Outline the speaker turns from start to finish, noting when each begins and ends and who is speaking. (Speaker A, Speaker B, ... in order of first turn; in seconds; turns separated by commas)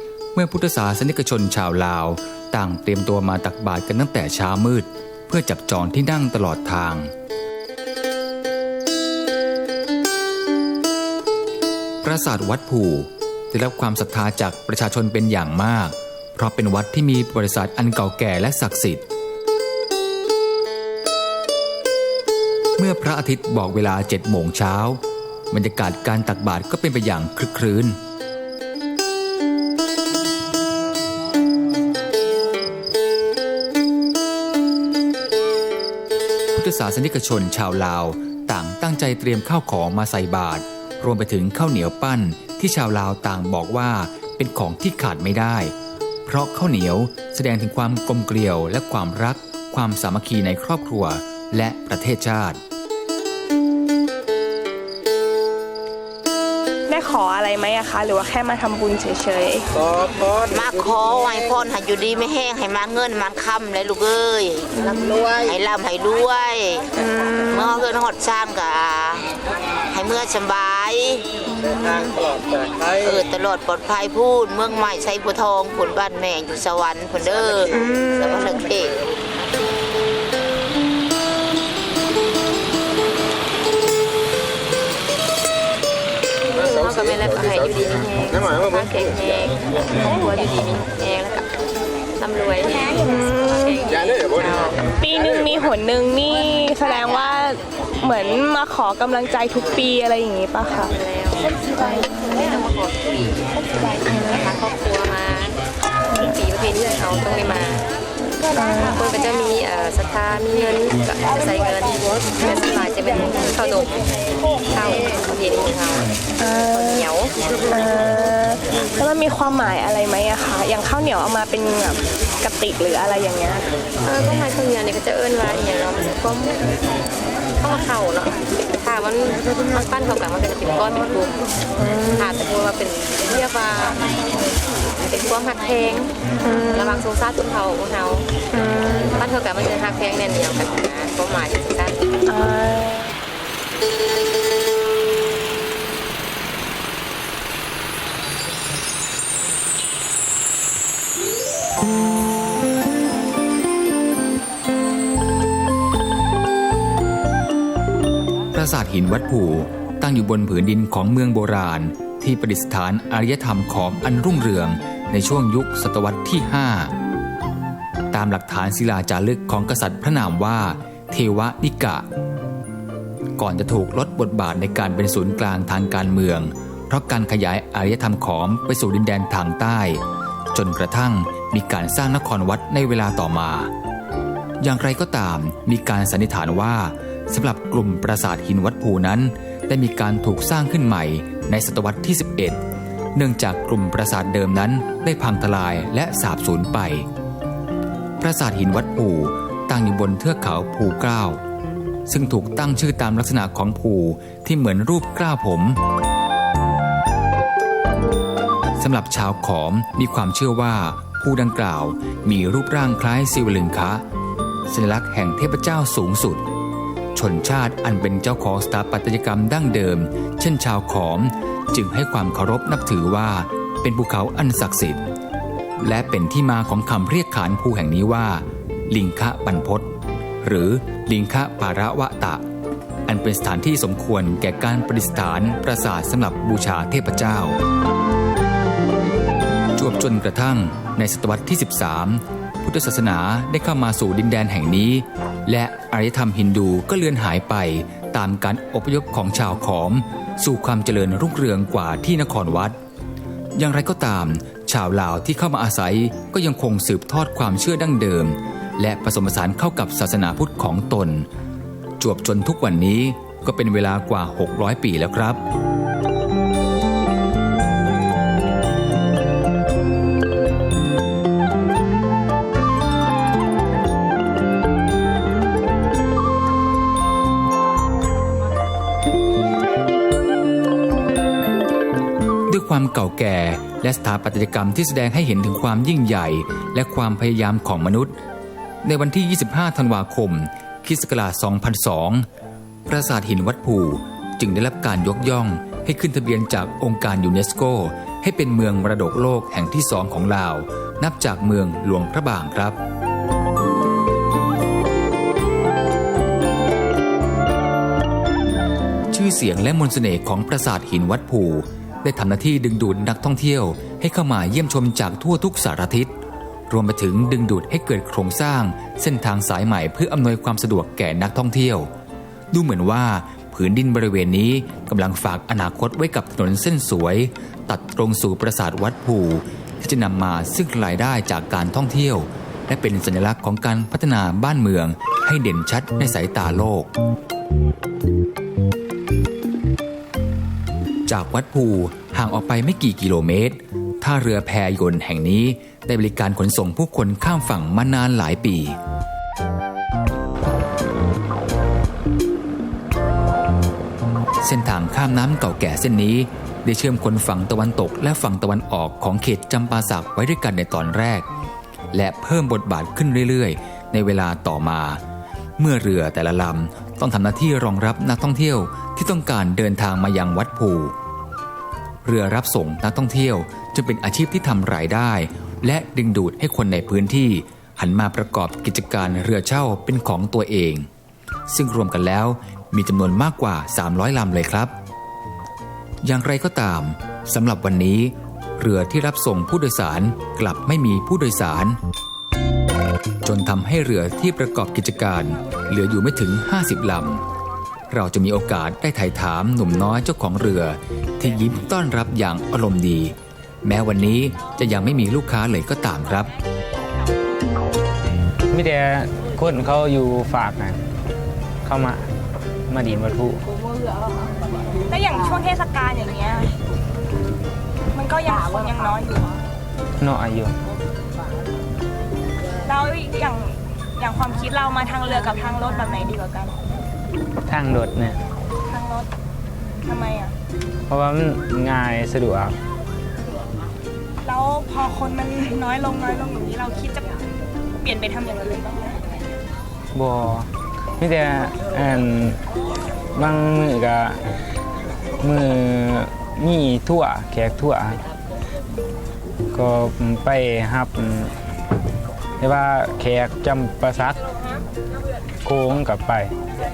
Speaker A: 0.3-7.1, Speaker A: 12.0-19.0, Speaker A: 22.8-28.0, Speaker A: 36.5-45.7, Speaker A: 46.2-52.6, Speaker B: 56.9-59.7, Speaker C: 60.5-66.8, Speaker B: 67.0-67.5, Speaker C: 67.5-69.2, Speaker C: 69.9-71.3, Speaker C: 72.9-79.0, Speaker D: 86.5-91.5, Speaker D: 92.2-94.9, Speaker B: 93.0-93.9, Speaker B: 95.0-100.9, Speaker D: 100.8-103.3, Speaker D: 103.8-105.5, Speaker D: 106.1-107.9, Speaker D: 108.5-114.0, Speaker D: 114.7-117.3, Speaker B: 116.4-117.0, Speaker B: 117.7-123.7, Speaker D: 124.0-126.8, Speaker D: 127.6-134.2, Speaker D: 134.9-142.0, Speaker B: 142.3-143.1, Speaker A: 158.5-166.9, Speaker A: 168.1-172.0, Speaker A: 173.4-180.0, Speaker A: 180.5-183.7, Speaker A: 184.6-192.6, Speaker A: 193.1-197.1, Speaker A: 198.2-201.4, Speaker A: 202.1-205.8, Speaker A: 208.8-214.0, Speaker A: 214.7-216.4, Speaker A: 217.1-225.1, Speaker A: 225.8-229.9, Speaker A: 230.4-232.4, Speaker A: 233.1-237.6, Speaker A: 239.7-252.8, Speaker A: 253.5-261.3, Speaker A: 262.0-265.4, Speaker A: 282.5-288.1, Speaker A: 288.8-292.2, Speaker A: 292.9-302.8, Speaker A: 309.1-316.1, Speaker A: 316.7-321.9, Speaker A: 322.5-336.9, Speaker A: 341.1-348.8, Speaker A: 354.4-361.3, Speaker A: 361.9-365.0, Speaker A: 365.6-370.9, Speaker A: 372.0-380.9, Speaker A: 381.5-384.7, Speaker A: 386.0-391.8, Speaker A: 393.2-397.2, Speaker A: 397.9-406.3, Speaker E: 408.5-410.8, Speaker E: 411.6-412.1, Speaker E: 412.7-413.4, Speaker B: 414.9-416.6, Speaker B: 417.9-419.4, Speaker E: 420.0-420.5, Speaker B: 422.6-426.6, Speaker E: 427.5-428.2, Speaker B: 428.7-429.1, Speaker B: 429.8-430.3, Speaker E: 430.9-432.6, Speaker B: 434.2-437.2, Speaker B: 437.8-439.0, Speaker E: 439.9-442.4, Speaker E: 443.1-444.3, Speaker E: 445.2-448.0, Speaker E: 449.5-451.3, Speaker E: 452.4-454.2, Speaker E: 455.4-456.3